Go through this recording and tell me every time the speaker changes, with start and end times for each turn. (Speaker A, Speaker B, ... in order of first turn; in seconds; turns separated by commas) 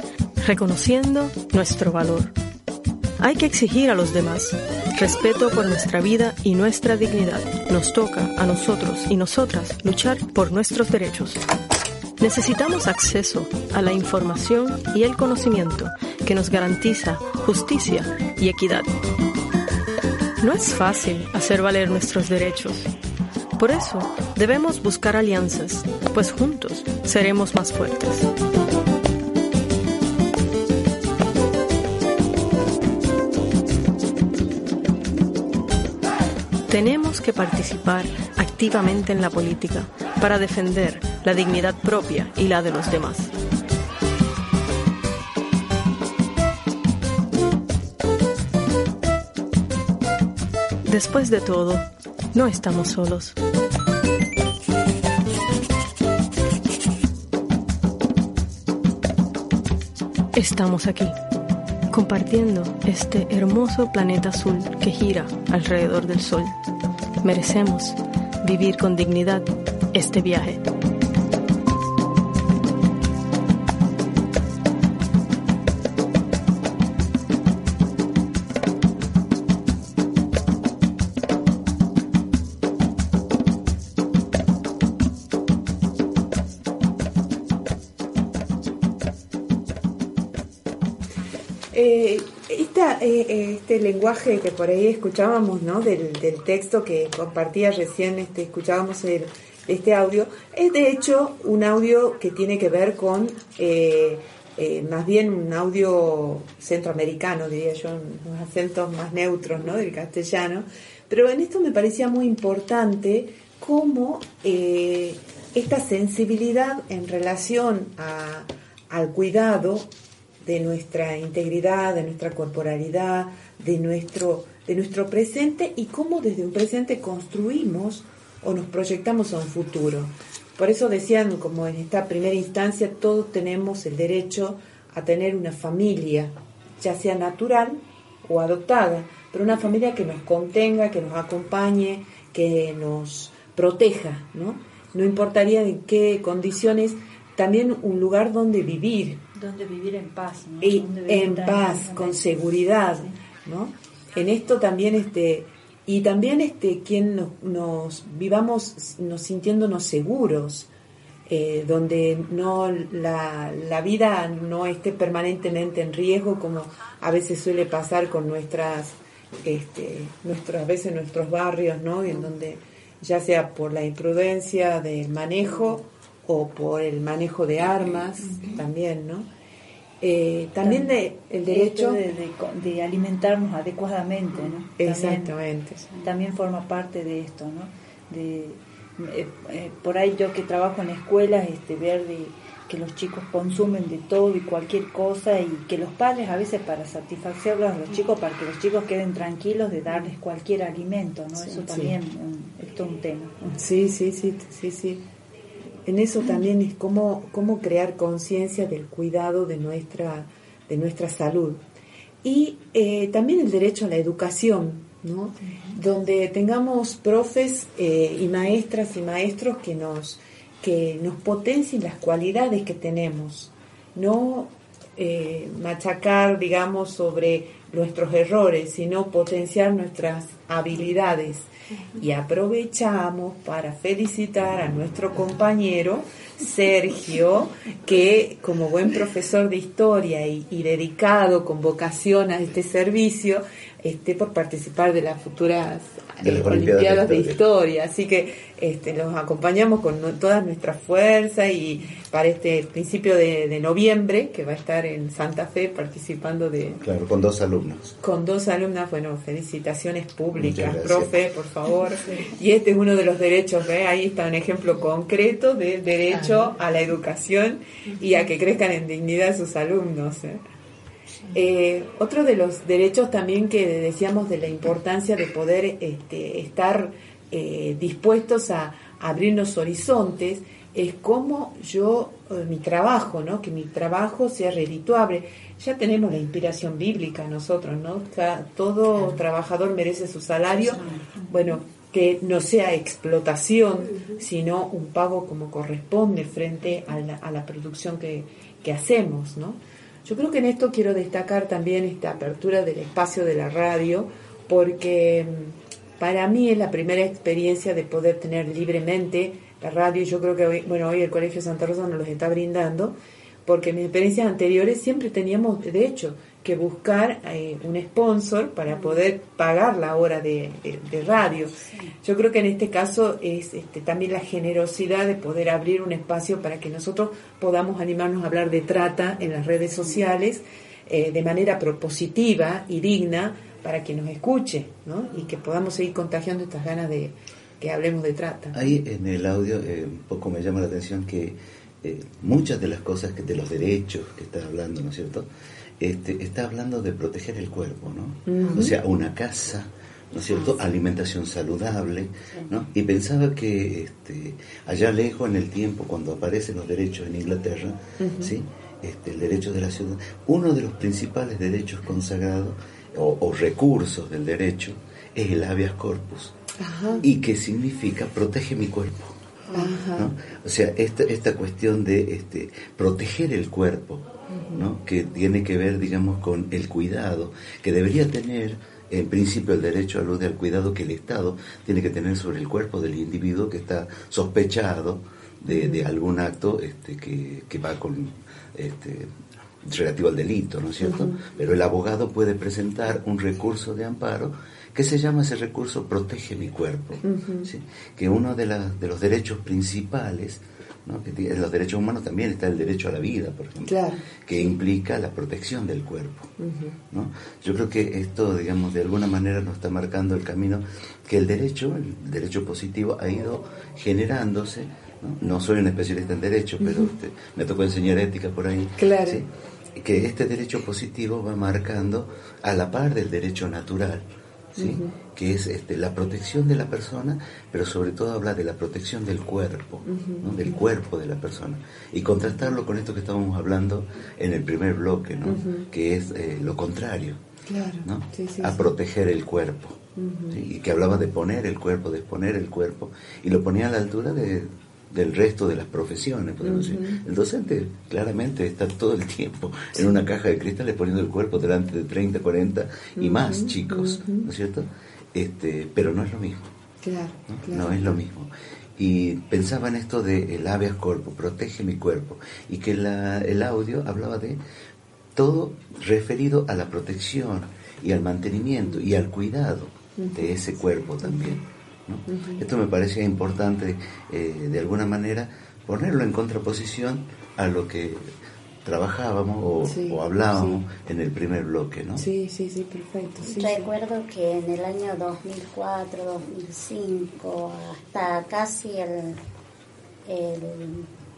Speaker A: 0.4-2.4, Speaker A: 3.2-11.4, Speaker A: 12.2-18.9, Speaker A: 20.4-22.9, Speaker A: 23.6-28.3, Speaker A: 36.7-43.3, Speaker A: 50.9-53.4, Speaker A: 60.3-61.2, Speaker A: 61.9-66.5, Speaker A: 67.2-70.6, Speaker B: 91.7-119.9, Speaker B: 120.4-149.2, Speaker C: 149.3-153.1, Speaker B: 150.6-160.7, Speaker B: 161.3-179.3, Speaker B: 180.0-182.0, Speaker C: 180.6-180.9, Speaker C: 181.5-185.3, Speaker B: 184.6-186.0, Speaker C: 186.0-203.6, Speaker B: 201.5-202.0, Speaker B: 203.6-205.0, Speaker B: 205.8-211.6, Speaker B: 212.2-256.8, Speaker D: 246.2-247.4, Speaker D: 256.8-257.9, Speaker B: 258.0-270.4, Speaker D: 260.3-261.2, Speaker B: 271.3-338.6, Speaker D: 338.5-345.3, Speaker D: 345.8-366.4, Speaker B: 348.3-348.7, Speaker B: 358.0-358.3, Speaker B: 366.6-367.1, Speaker D: 367.0-369.2, Speaker B: 369.5-370.1, Speaker D: 369.9-406.3, Speaker B: 374.3-374.7, Speaker B: 385.5-385.9, Speaker B: 390.8-391.3, Speaker B: 397.0-397.5, Speaker B: 403.6-404.6, Speaker B: 406.4-406.8, Speaker D: 406.9-424.1, Speaker B: 416.6-416.9, Speaker B: 418.8-419.2, Speaker B: 424.6-425.0, Speaker D: 424.6-437.2, Speaker B: 429.9-430.6, Speaker B: 435.3-435.7, Speaker B: 437.5-438.7, Speaker D: 437.8-456.5, Speaker B: 440.0-440.4, Speaker B: 446.4-447.0, Speaker B: 453.0-454.3, Speaker B: 456.8-457.9, Speaker D: 457.3-464.4, Speaker D: 465.1-482.1, Speaker B: 470.0-470.5, Speaker B: 471.0-471.4, Speaker B: 472.1-472.4, Speaker B: 479.7-480.6, Speaker B: 482.0-483.7, Speaker E: 483.2-489.2, Speaker E: 490.1-490.9